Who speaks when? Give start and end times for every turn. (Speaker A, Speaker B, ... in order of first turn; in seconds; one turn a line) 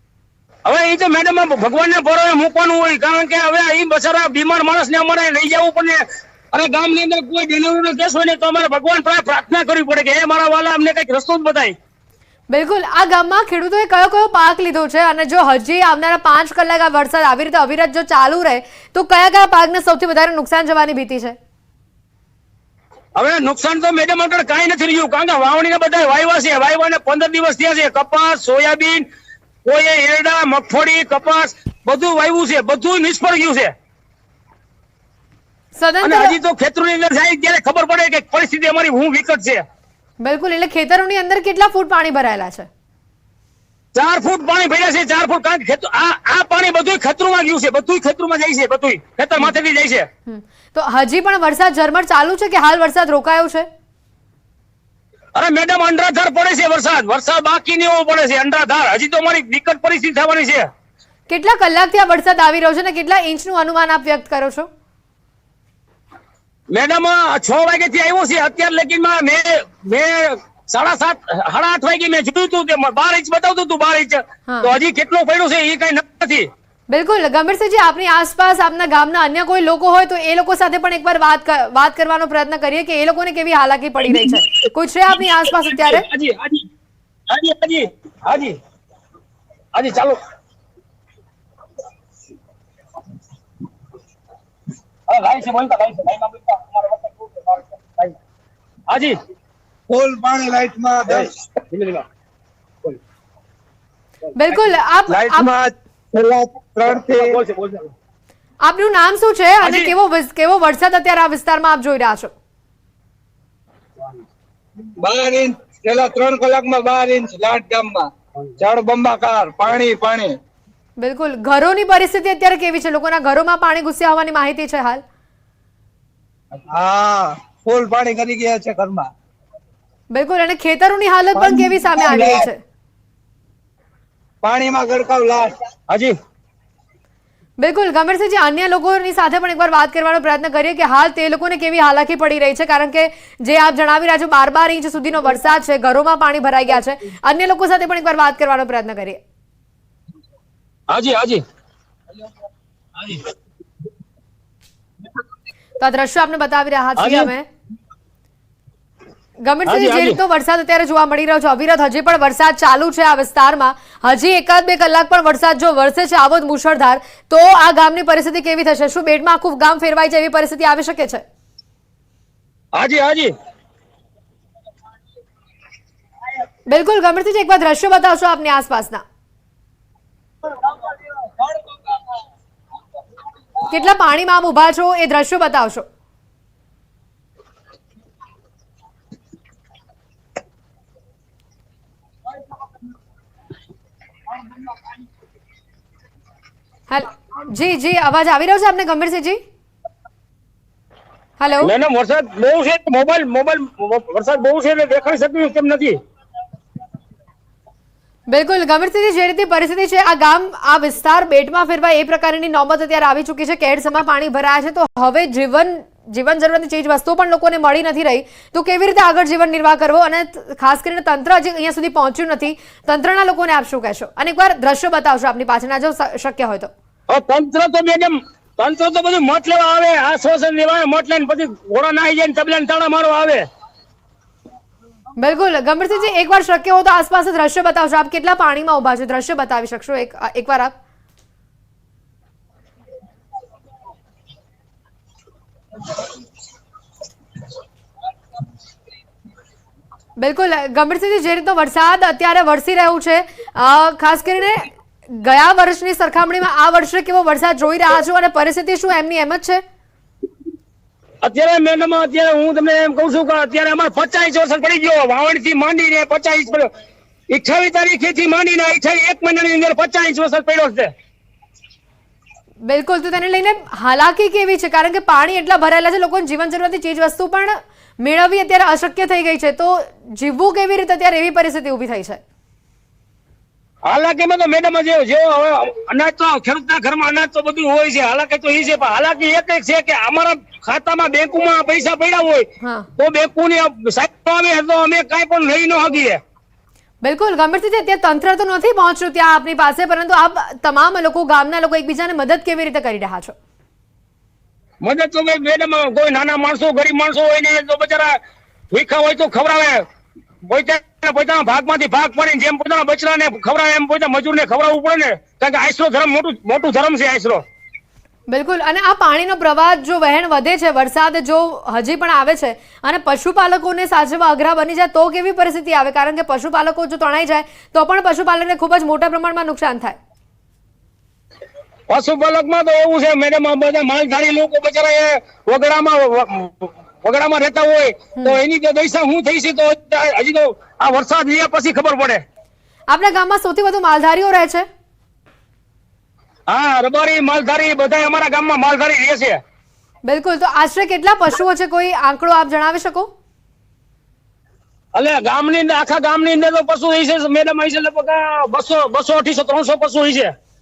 Speaker A: 0.7-11.8
Speaker B: 12.5-21.4
Speaker A: 23.2-29.1
Speaker A: 29.6-33.7
Speaker B: 35.8-36.4
Speaker A: 36.0-39.6
Speaker B: 40.2-42.7
Speaker A: 44.0-50.1
Speaker B: 50.3-53.7
Speaker A: 55.4-60.7
Speaker B: 61.3-64.7
Speaker A: 66.7-76.5
Speaker B: 76.9-86.1
Speaker A: 84.1-84.7
Speaker A: 85.3-86.7
Speaker A: 87.3-88.6
Speaker A: 89.8-90.2
Speaker A: 95.1-98.1
Speaker A: 98.9-99.2
Speaker C: 99.9-101.4
Speaker A: 101.1-102.0
Speaker B: 104.3-105.5
Speaker C: 105.2-107.4
Speaker A: 107.1-107.9
Speaker B: 108.6-112.3
Speaker A: 109.6-109.9
Speaker C: 115.0-120.4
Speaker B: 121.0-125.0
Speaker C: 126.6-129.1
Speaker B: 130.1-132.6
Speaker C: 131.4-132.5
Speaker C: 134.4-135.5
Speaker A: 135.9-136.2
Speaker B: 137.6-149.2
Speaker A: 150.9-151.4
Speaker A: 153.0-153.3
Speaker B: 155.8-157.5
Speaker A: 157.0-157.3
Speaker B: 159.4-171.2
Speaker A: 159.7-160.2
Speaker A: 172.8-173.3
Speaker B: 176.7-179.0
Speaker B: 183.7-185.9
Speaker B: 196.9-199.4
Speaker B: 201.4-201.7
Speaker A: 201.6-206.0
Speaker B: 208.3-226.7
Speaker A: 227.1-233.5
Speaker B: 235.2-240.7
Speaker B: 250.2-259.6
Speaker A: 261.2-266.7
Speaker A: 267.3-270.9
Speaker B: 272.6-282.2
Speaker A: 283.9-296.2
Speaker B: 292.6-292.9
Speaker B: 297.0-303.4
Speaker A: 304.8-308.2
Speaker A: 308.7-309.9
Speaker A: 310.5-317.4
Speaker B: 318.3-330.0
Speaker A: 331.9-342.2
Speaker B: 342.9-344.7
Speaker A: 346.5-349.4
Speaker B: 350.1-353.1
Speaker A: 354.9-360.3